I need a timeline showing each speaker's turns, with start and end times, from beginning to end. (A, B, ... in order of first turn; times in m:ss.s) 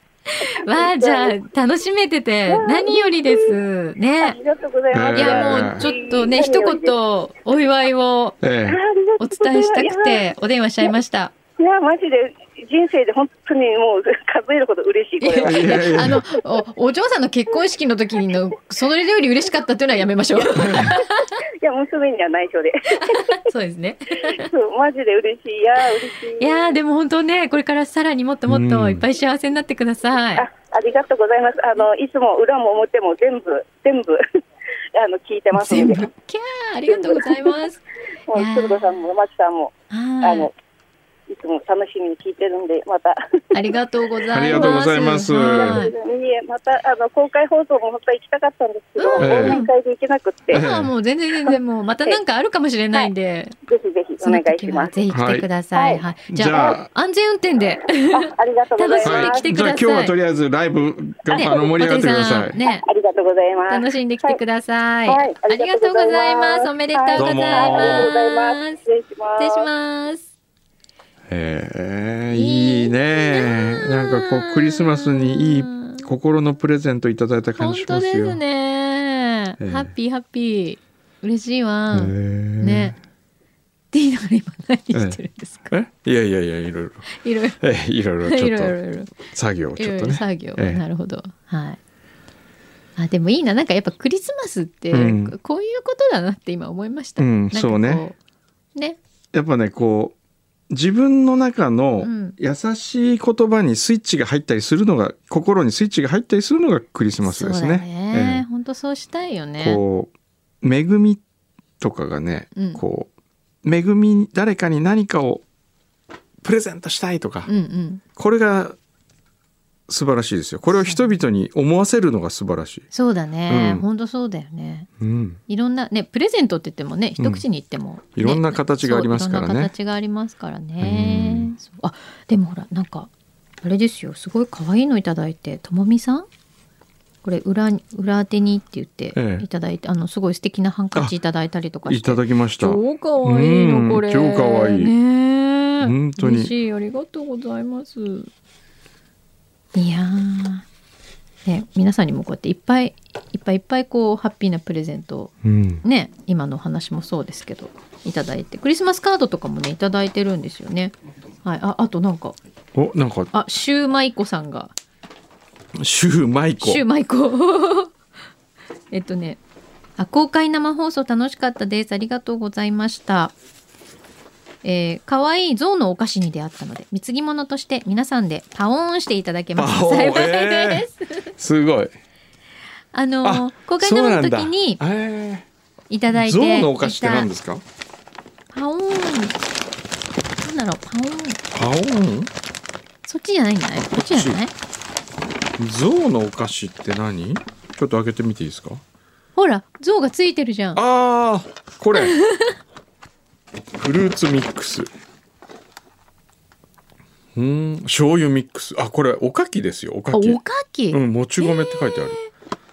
0:00.3-0:04.4 A
0:00.6-0:01.3 B
0:02.5-0:03.6 B
0:04.2-0:06.9 B
0:04.9-0:05.8 C
0:05.1-0:08.4 A
0:08.4-0:08.8 C
0:08.7-0:10.2 B
0:09.2-0:11.3 A
0:11.6-0:16.1 B
0:15.2-0:21.3 A
0:15.4-0:16.2 C
0:20.6-0:20.9 C
0:20.6-0:21.1 B
0:21.6-0:23.4 B
0:22.9-0:24.5 A
0:24.3-0:26.8 B
0:26.4-0:30.5 A
0:28.5-0:29.0 C
0:30.4-0:34.2 B
0:34.9-0:36.1 B
0:35.5-0:37.8 A
0:36.9-0:37.6 B
0:38.3-0:40.5 B
0:38.3-0:38.9 A
0:39.9-0:40.5 A
0:41.3-0:43.4 B
0:43.5-0:45.9 A
0:44.3-0:45.8 C
0:44.5-0:50.6 B
0:49.0-0:49.7 A
0:49.2-0:49.6 C
0:50.5-0:53.5 A
0:50.5-0:50.9 C
0:53.7-0:54.9 B
0:54.2-1:00.1 A
0:55.1-0:55.5 C
0:55.8-0:56.8 B
0:56.3-0:56.9 C
0:58.1-0:59.6 B
0:59.0-1:02.6 C
1:01.3-1:01.6 B
1:01.3-1:02.8 A
1:02.7-1:04.4 B
1:03.7-1:08.8 A
1:05.1-1:09.7 B
1:07.2-1:08.1 C
1:09.4-1:10.2 A
1:11.3-1:18.4 C
1:12.3-1:16.1 A
1:17.6-1:23.0 A
1:19.6-1:19.9 C
1:21.9-1:23.0 C
1:23.9-1:25.7 A
1:24.9-1:25.2 C
1:25.7-1:27.0 C
1:27.1-1:27.6 A
1:27.6-1:30.8 C
1:28.2-1:29.1 A
1:29.8-1:31.8 A
1:33.0-1:38.2 A
1:34.9-1:35.4 C
1:37.2-1:38.0 C
1:39.3-1:40.2 C
1:40.7-1:48.4 C
1:42.0-1:42.4 A
1:47.2-1:49.8 A
1:49.6-1:50.1 C
1:50.6-1:51.2 C
1:51.8-1:53.1 C
1:52.6-1:52.8 A
1:53.6-1:55.4 C
1:56.4-1:57.5 C
1:57.5-1:58.0 A
1:58.2-1:58.8 C
1:59.9-2:02.9 C
2:00.7-2:01.0 A
2:02.9-2:04.9 A
2:03.5-2:03.8 C
2:05.0-2:05.4 C
2:05.5-2:13.1 A
2:07.2-2:07.4 C
2:08.1-2:09.7 C
2:10.8-2:11.6 C
2:13.6-2:16.3 A
2:17.2-2:28.3 A
2:19.1-2:19.4 C
2:21.8-2:24.9 C
2:25.8-2:26.5 C
2:29.7-2:30.6 A
2:31.4-2:42.4 A
2:35.4-2:35.8 C
2:42.7-2:43.3 C
2:43.3-2:44.7 A
2:45.8-2:46.8 C
2:46.6-2:47.9 A
2:48.9-2:49.4 A
2:50.0-2:53.3 A
2:54.6-3:01.3 A
2:59.6-3:01.9 C
3:02.9-3:04.8 A
3:03.2-3:05.5 C
3:05.9-3:07.3 A
3:06.1-3:07.6 C
3:08.5-3:09.4 A
3:10.4-3:11.4 A
3:11.5-3:12.3 C
3:13.0-3:14.5 A
3:13.9-3:14.4 C
3:15.6-3:18.8 C
3:19.4-3:20.8 A
3:20.7-3:22.2 C
3:22.0-3:22.5 A
3:23.8-3:24.9 C
3:27.3-3:30.4 C
3:30.1-3:32.3 A
3:30.9-3:32.2 C